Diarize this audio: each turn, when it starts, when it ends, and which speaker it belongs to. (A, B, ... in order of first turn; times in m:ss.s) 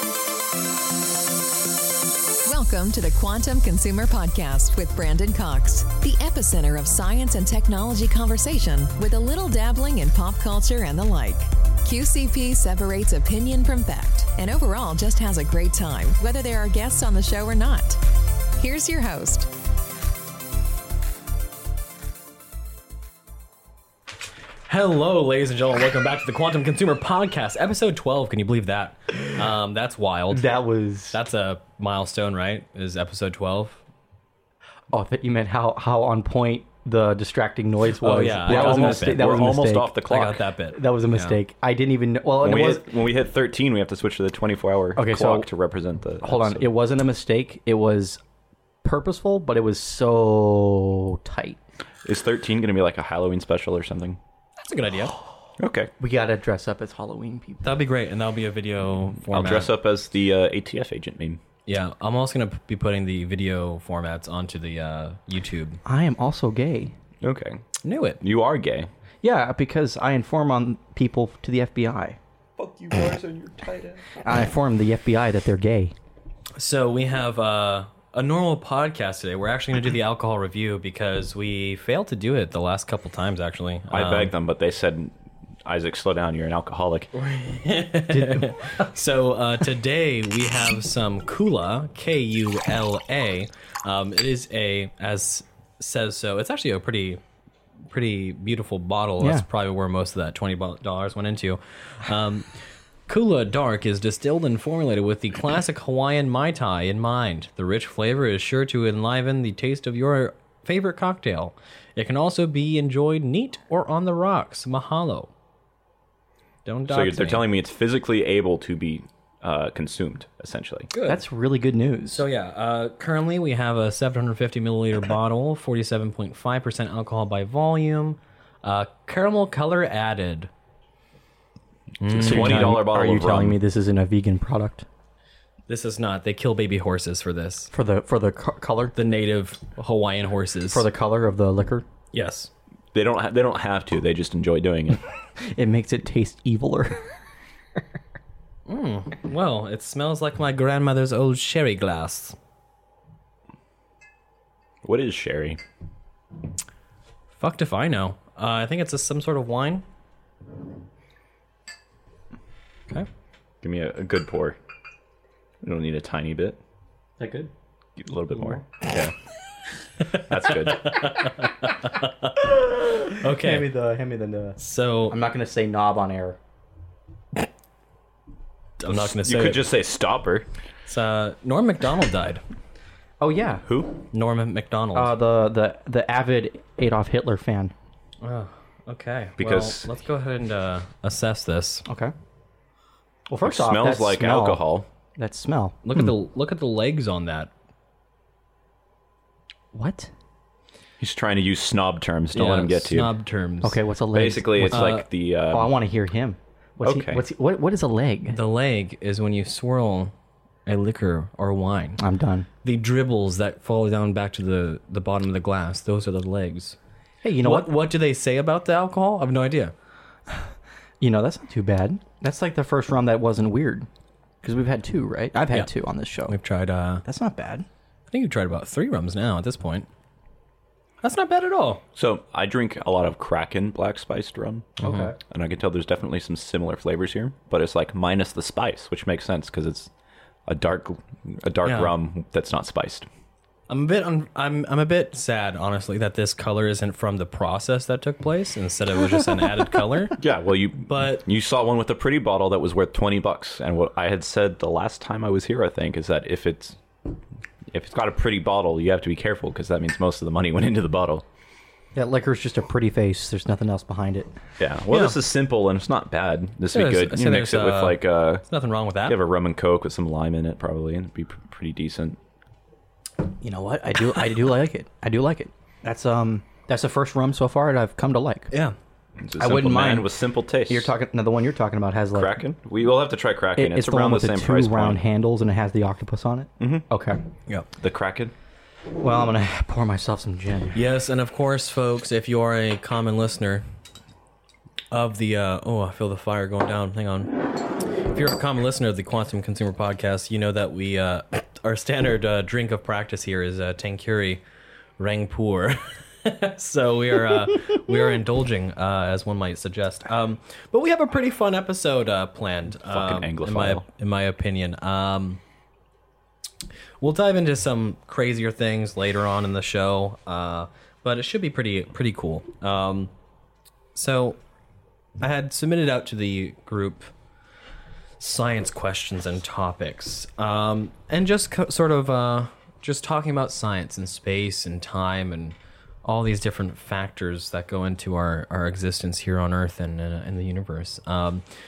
0:02.4-0:18.0 A
0:18.5-0:19.5 A
0:24.7-0:30.5 B
0:30.3-0:31.2 C
0:31.1-0:33.8 B
0:34.9-0:39.9 C
0:38.0-0:39.3 B
0:38.4-0:40.4 D
0:40.1-0:41.4 B
0:40.7-0:42.9 C
0:42.4-0:46.7 D
0:45.0-0:45.5 C
0:46.2-0:48.2 C
0:48.8-0:51.6 C
0:52.0-0:54.2 D
0:54.6-0:55.1 B
0:55.6-0:55.9 D
0:56.0-0:57.8 C
0:57.6-0:59.7 B
0:59.3-1:01.4 D
1:01.7-1:05.8 B
1:05.8-1:06.9 C
1:07.2-1:07.6 D
1:07.8-1:08.2 B
1:08.2-1:08.9 D
1:09.2-1:12.2 C
1:12.6-1:14.0 D
1:14.2-1:15.9 C
1:16.6-1:24.3 B
1:23.9-1:25.1 D
1:25.6-1:27.1 D
1:27.1-1:37.2 B
1:28.1-1:28.5 C
1:37.9-1:42.5 B
1:39.2-1:39.4 C
1:43.1-1:55.3 B
1:56.6-1:57.5 B
1:56.9-2:00.9 D
2:00.9-2:01.2 B
2:01.0-2:02.2 C
2:02.1-2:10.5 B
2:12.0-2:12.8 B
2:12.0-2:13.6 D
2:12.2-2:14.8 C
2:15.7-2:17.7 B
2:17.7-2:19.0 C
2:18.9-2:20.8 B
2:20.7-2:21.8 C
2:22.1-2:22.5 B
2:22.9-2:25.0 D
2:25.4-2:27.1 C
2:28.7-2:32.4 B
2:34.8-2:35.6 D
2:37.3-2:39.8 B
2:43.6-2:44.6 D
2:45.6-2:46.6 D
2:47.2-2:47.5 C
2:48.0-2:49.1 D
2:48.3-2:48.6 C
2:50.0-2:53.7 B
2:50.1-2:51.0 D
2:52.9-2:56.4 C
2:54.6-2:55.2 B
2:58.8-2:59.7 B
2:58.9-3:00.4 D
3:00.9-3:02.4 B
3:03.2-3:03.7 C
3:03.6-3:04.0 D
3:04.1-3:05.1 B
3:04.9-3:07.7 C
3:08.2-3:11.8 B
3:09.4-3:09.9 D
3:11.9-3:12.1 C
3:13.3-3:14.6 C
3:13.4-3:14.9 D
3:15.2-3:16.1 C
3:15.8-3:17.5 B
3:19.7-3:20.1 C
3:21.0-3:23.1 D
3:22.3-3:23.8 B
3:23.6-3:28.4 C
3:24.1-3:25.7 D
3:24.7-3:25.0 B
3:26.8-3:27.2 D
3:28.3-3:30.1 B
3:30.6-3:32.0 B
3:32.0-3:32.5 C
3:32.6-3:36.8 B
3:37.2-3:37.7 C
3:37.4-3:39.7 B
3:41.0-3:43.9 C
3:44.4-3:46.4 C
3:46.3-3:47.0 B
3:47.0-3:47.7 C
3:48.1-3:49.8 B
3:51.0-3:51.8 B
3:51.9-3:59.9 D
3:54.8-3:55.2 C
3:54.8-3:55.1 B
4:00.4-4:03.1 D
4:01.6-4:01.9 B
4:03.7-4:10.2 B
4:10.2-4:16.8 D
4:10.8-4:11.2 B
4:17.7-4:21.2 D
4:21.9-4:24.3 C
4:24.6-4:28.4 D
4:24.9-4:25.2 B
4:26.7-4:29.2 B
4:29.0-4:32.2 D
4:33.4-4:38.5 C
4:39.2-4:40.9 D
4:39.4-4:40.1 C
4:40.7-4:42.4 C
4:42.1-4:45.0 D
4:43.5-4:47.2 C
4:46.6-4:46.9 D
4:47.8-4:48.3 D
4:49.0-4:50.8 C
4:50.7-4:53.6 B
4:54.9-5:04.4 B
5:05.0-5:15.4 B
5:12.8-5:13.8 D
5:17.0-5:23.1 B
5:23.9-5:24.4 B
5:25.2-5:27.1 B
5:28.2-5:41.4 B